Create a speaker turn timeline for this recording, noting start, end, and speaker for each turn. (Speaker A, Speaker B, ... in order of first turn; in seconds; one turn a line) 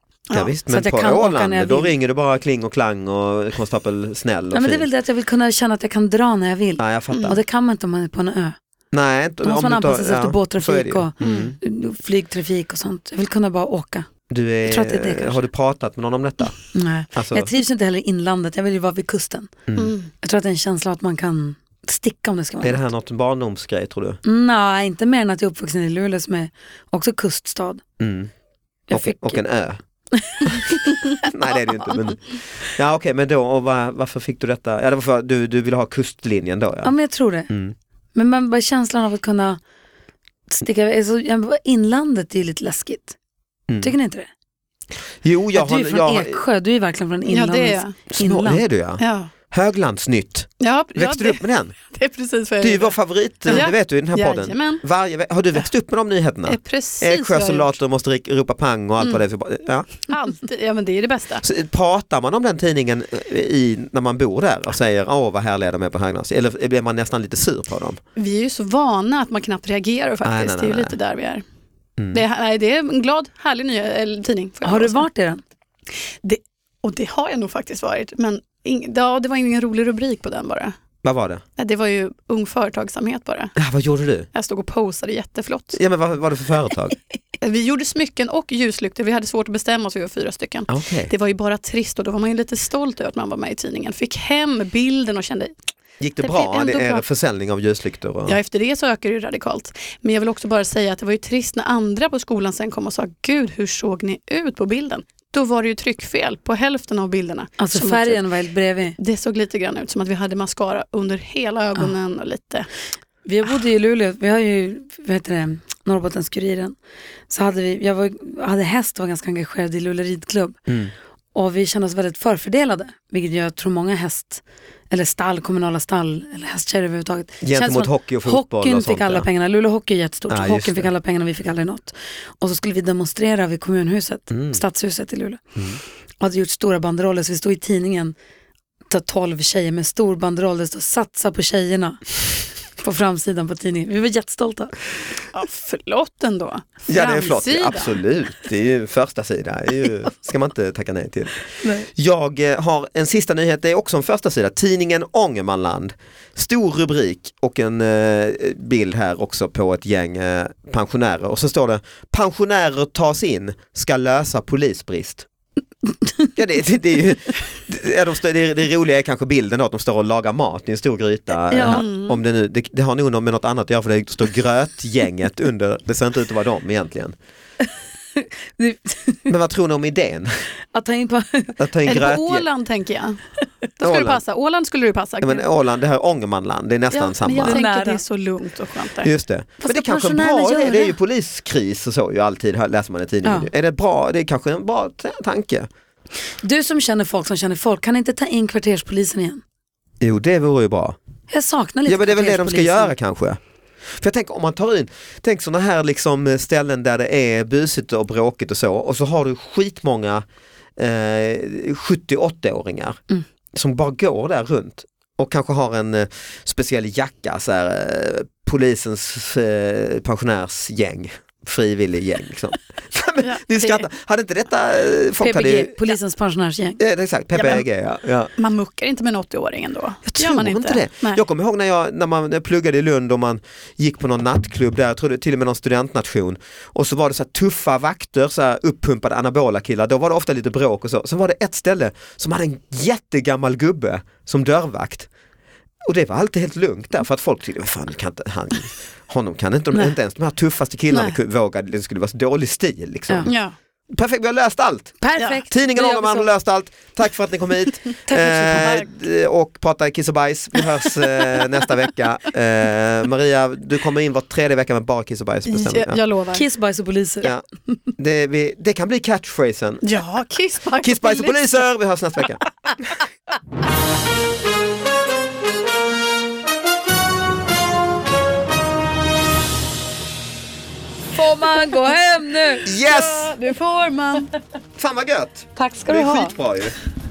Speaker A: 0.3-4.9
Speaker B: 0.7-1.9
Speaker B: 4.5-8.6
Speaker A: 6.8-7.4
Speaker C: 7.1-7.4
Speaker A: 8.9-11.6
Speaker B: 9.4-14.1
Speaker C: 11.2-11.5
Speaker A: 14.3-16.6
Speaker B: 14.7-15.5
Speaker B: 16.7-19.6
Speaker A: 17.1-17.5
Speaker A: 19.7-19.9
Speaker C: 19.8-20.1
Speaker B: 20.2-22.9
Speaker A: 22.6-24.2
Speaker B: 24.2-27.8
Speaker A: 28.0-28.3
Speaker B: 28.9-29.4
Speaker A: 28.9-29.8
Speaker B: 30.1-31.3
Speaker A: 30.4-37.0
Speaker B: 36.8-37.5
Speaker A: 37.5-37.8
Speaker B: 38.1-39.6
Speaker B: 40.5-43.2
Speaker B: 43.8-44.3
Speaker A: 45.2-46.4
Speaker B: 45.5-48.6
Speaker C: 47.3-48.0
Speaker A: 48.1-51.8
Speaker C: 49.0-49.3
Speaker C: 50.6-54.8
Speaker A: 52.6-59.9
Speaker C: 56.5-57.8
Speaker C: 60.1-61.4
Speaker A: 61.4-68.0
Speaker C: 68.2-71.4
Speaker A: 70.2-71.0
Speaker A: 72.0-72.2
Speaker C: 72.1-75.0
Speaker B: 74.6-75.4
Speaker C: 76.2-80.8
Speaker A: 81.0-81.4
Speaker C: 81.6-83.5
Speaker A: 83.6-84.3
Speaker C: 84.3-85.8
Speaker A: 85.7-87.0
Speaker C: 87.4-95.5
Speaker A: 90.7-91.1
Speaker A: 96.0-98.4
Speaker C: 96.2-97.0
Speaker C: 98.3-108.2
Speaker B: 107.6-109.0
Speaker C: 109.0-112.7
Speaker B: 113.3-116.8
Speaker B: 117.3-120.6
Speaker A: 120.7-120.9
Speaker B: 121.3-135.4
Speaker A: 127.4-129.3
Speaker A: 130.3-130.9
Speaker A: 134.3-134.6
Speaker B: 136.2-138.2
Speaker B: 138.9-142.0
Speaker B: 142.8-144.7
Speaker C: 145.3-148.0
Speaker A: 146.9-165.3
Speaker A: 166.4-177.2
Speaker B: 171.5-171.9
Speaker C: 171.7-172.2
Speaker B: 178.2-179.3
Speaker A: 179.3-180.4
Speaker B: 180.7-181.6
Speaker A: 181.6-182.5
Speaker C: 181.8-183.2
Speaker C: 183.8-185.5
Speaker A: 183.8-184.2
Speaker A: 185.2-187.6
Speaker C: 186.9-189.1
Speaker B: 187.4-188.0
Speaker A: 189.0-195.7
Speaker B: 189.6-190.9
Speaker B: 193.2-193.5
Speaker B: 196.4-199.4
Speaker A: 200.0-201.0
Speaker B: 201.3-202.9
Speaker A: 201.9-203.4
Speaker A: 203.9-210.2
Speaker A: 210.8-213.0
Speaker A: 213.5-225.7
Speaker C: 223.2-223.9
Speaker B: 225.2-226.8
Speaker A: 226.8-228.3
Speaker C: 227.3-227.7
Speaker C: 228.4-231.2
Speaker A: 230.2-245.1
Speaker A: 245.8-253.3
Speaker C: 253.3-253.6
Speaker A: 253.9-266.0
Speaker B: 255.0-256.3
Speaker B: 258.1-258.7
Speaker C: 258.5-258.9
Speaker C: 265.5-266.4
Speaker B: 266.3-267.3
Speaker A: 268.0-269.9
Speaker C: 269.8-271.5
Speaker A: 270.8-272.9
Speaker B: 281.1-282.7
Speaker A: 282.6-283.3
Speaker C: 282.6-284.4
Speaker A: 284.8-286.8
Speaker B: 285.6-286.4